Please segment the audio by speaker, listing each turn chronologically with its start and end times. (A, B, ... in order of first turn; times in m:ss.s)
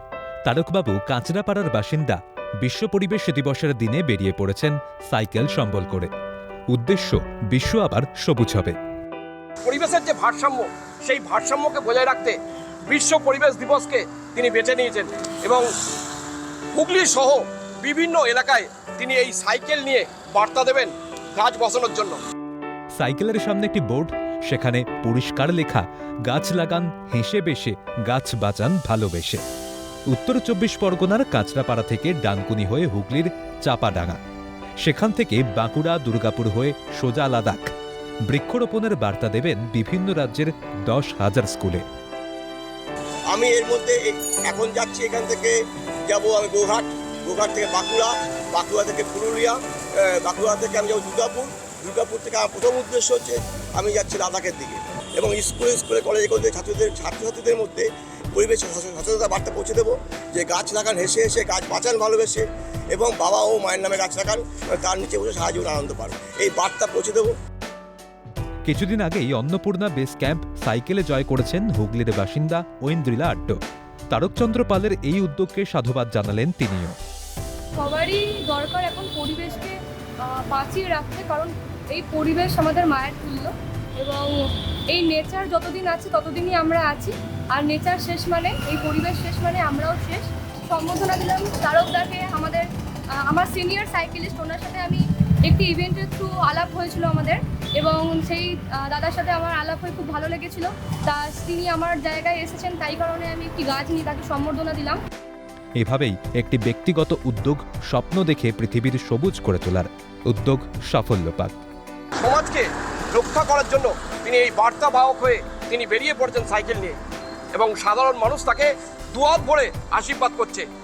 0:00.5-0:06.1 A
0:06.7-0:08.8 A
0:09.6-0:12.4 B
0:12.9-0:15.7 B
0:16.8-0:22.2 B
0:23.0-0:29.4 A
0:30.1-0:34.2 A
0:34.8-0:37.7 A
0:38.3-0:41.8 A
0:43.3-0:45.6 C
0:46.1-1:07.3 C
1:08.7-1:13.6 A
1:14.1-1:17.0 A
1:17.8-1:19.8 D
1:20.3-1:24.3 D
1:24.9-1:32.7 D
1:33.3-1:45.0 D
1:45.8-1:51.6 A
1:52.2-1:57.0 B
1:57.5-2:00.7 B